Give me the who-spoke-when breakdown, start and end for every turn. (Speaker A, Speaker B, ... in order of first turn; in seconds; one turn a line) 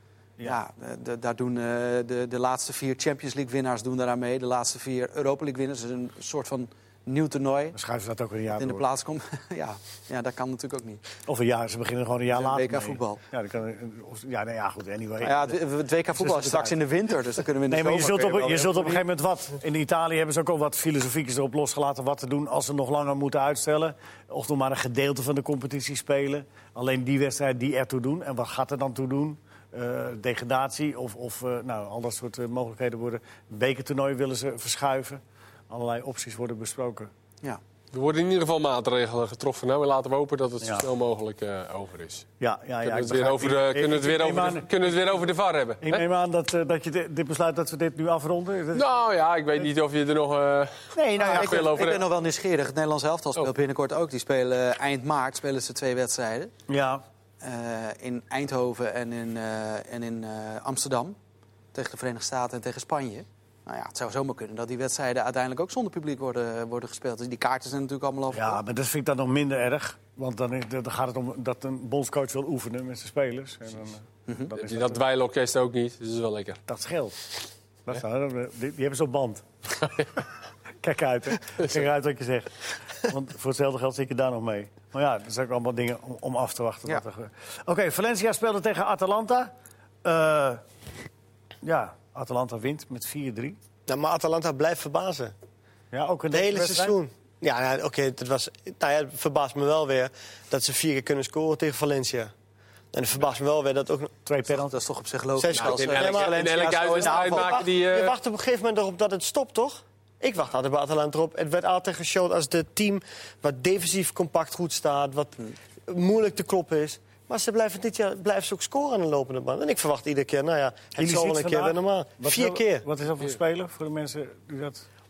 Speaker A: 0.4-7.8
Speaker B: 7.7-8.8
Speaker A: 8.5-11.0
Speaker B: 11.3-15.6
Speaker A: 12.3-13.2
Speaker A: 15.2-19.0
Speaker B: 16.2-16.8
Speaker B: 17.7-37.1
Speaker C: 37.9-42.3
Speaker B: 42.4-44.8
Speaker C: 42.8-46.0
Speaker B: 45.8-48.9
Speaker C: 48.7-52.0
Speaker B: 50.9-52.0
Speaker A: 51.2-56.5
Speaker B: 56.7-57.0
Speaker A: 57.4-61.2
Speaker A: 61.7-68.6
Speaker B: 68.3-75.0
Speaker C: 74.5-76.6
Speaker B: 76.7-77.2
Speaker B: 77.9-79.5
Speaker B: 80.8-89.5
Speaker B: 90.0-90.6
Speaker B: 91.6-93.6
Speaker D: 93.9-95.3
Speaker B: 95.9-97.0
Speaker D: 96.3-102.3
Speaker D: 102.9-104.2
Speaker B: 104.3-104.7
Speaker A: 104.5-107.7
Speaker D: 105.4-122.9
Speaker C: 105.5-108.2
Speaker B: 121.0-124.8